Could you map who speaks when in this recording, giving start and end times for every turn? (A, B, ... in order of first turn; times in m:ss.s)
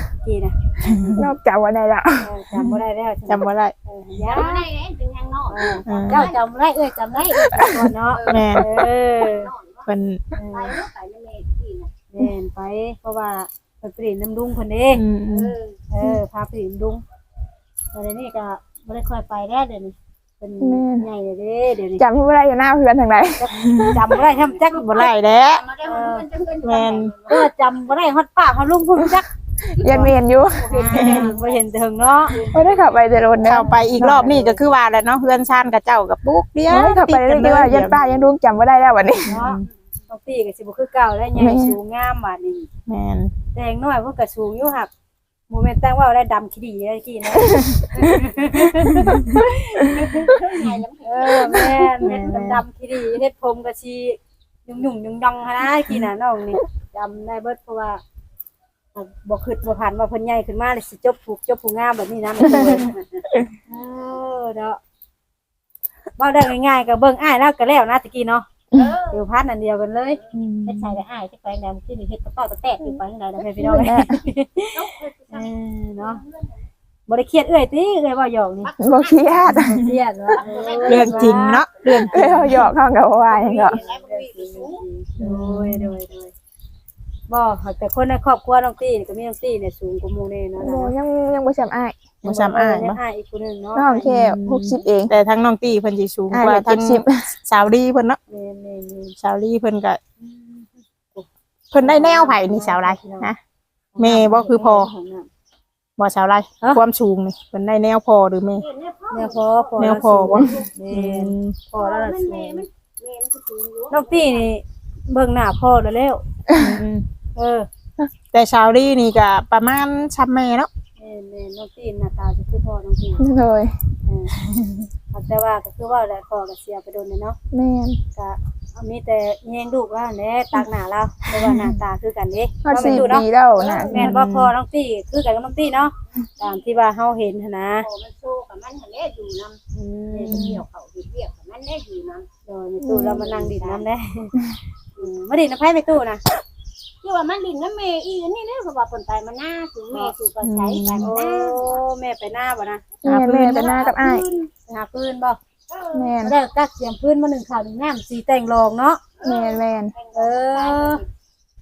0:00.2-0:01.1 A
0:00.8-0:01.2 B
0:01.2-0:02.3 C
0:02.2-0:04.7 A
0:03.3-0:03.7 B
0:04.2-0:06.4 D
0:05.4-0:09.5 A
0:05.9-0:06.2 B
0:07.2-0:07.6 D
0:08.2-0:08.6 D
0:08.3-0:08.7 B
0:09.4-0:09.8 D
0:09.8-0:10.2 B
0:10.3-0:10.8 A
0:10.5-0:11.9 D
0:12.1-0:15.0 A
0:14.9-0:15.6 B
0:15.9-0:17.0 A
0:17.9-0:22.0 A
0:20.6-0:21.1 C
0:22.0-0:24.0 C
0:23.4-0:25.1 A
0:23.5-0:24.0 B
0:24.7-0:25.7 B
0:25.6-0:27.5 D
0:25.8-0:26.3 A
0:26.6-0:27.2 B
0:27.3-0:30.1 A
0:29.6-0:31.3 C
0:30.6-0:31.6 D
0:30.7-0:32.5 A
0:30.9-0:31.3 B
0:32.3-0:33.0 D
0:32.5-0:34.4 C
0:33.4-0:38.0 B
0:34.1-0:34.6 A
0:36.7-0:39.4 C
0:39.3-0:39.6 B
0:39.3-0:42.7 A
0:41.4-0:41.8 C
0:42.9-0:43.3 B
0:43.5-0:44.9 A
0:45.5-0:50.4 A
0:47.3-0:48.2 C
0:49.8-0:51.6 D
0:51.0-0:58.0 A
0:52.0-0:52.6 B
0:58.9-1:03.0 A
1:03.7-1:04.8 A
1:06.2-1:08.4 A
1:09.0-1:14.8 A
1:10.3-1:11.0 B
1:10.8-1:11.3 D
1:13.6-1:14.2 C
1:14.8-1:15.5 D
1:15.3-1:16.2 A
1:17.1-1:18.7 A
1:18.6-1:19.6 D
1:18.8-1:19.8 C
1:19.5-1:19.9 B
1:19.6-1:22.5 A
1:20.4-1:21.4 D
1:20.9-1:22.2 B
1:22.0-1:23.8 C
1:23.3-1:24.8 D
1:23.6-1:26.3 A
1:25.2-1:25.9 B
1:27.3-1:30.9 A
1:30.6-1:32.2 C
1:32.2-1:33.0 B
1:32.2-1:34.3 A
1:33.7-1:35.1 C
1:34.0-1:38.2 B
1:36.3-1:37.3 C
1:38.3-1:39.1 A
1:39.2-1:40.0 B
1:40.2-1:40.5 A
1:41.7-1:43.4 B
1:41.8-1:43.3 A
1:44.0-1:45.3 A
1:44.0-1:44.9 B
1:46.0-1:48.6 B
1:48.6-1:50.7 D
1:49.1-1:52.6 A
1:49.8-1:51.6 B
1:51.8-1:54.4 D
1:53.9-1:56.2 A
1:56.5-1:56.8 C
1:56.6-1:57.0 B
1:57.4-1:57.7 A
1:58.3-2:00.7 B
2:01.0-2:03.2 A
2:03.2-2:03.7 C
2:04.0-2:04.3 A
2:04.4-2:04.9 B
2:05.1-2:07.4 A
2:07.5-2:08.0 C
2:08.2-2:13.3 A
2:11.4-2:11.7 B
2:12.6-2:14.1 C
2:13.6-2:13.9 D
2:13.9-2:17.9 A
2:13.9-2:14.5 B
2:17.8-2:19.6 D
2:19.7-2:20.5 A
2:20.2-2:20.6 B
2:20.3-2:22.3 D
2:22.5-2:24.4 A
2:22.8-2:23.3 C
2:23.2-2:23.8 D
2:25.0-2:26.2 A
2:27.0-2:31.8 D
2:30.4-2:31.1 B
2:31.0-2:32.8 A
2:33.0-2:34.2 C
2:33.0-2:33.8 B
2:33.8-2:35.4 A
2:35.9-2:36.3 C
2:36.2-2:39.0 A
2:39.2-2:41.0 D
2:39.2-2:39.9 C
2:40.1-2:41.0 A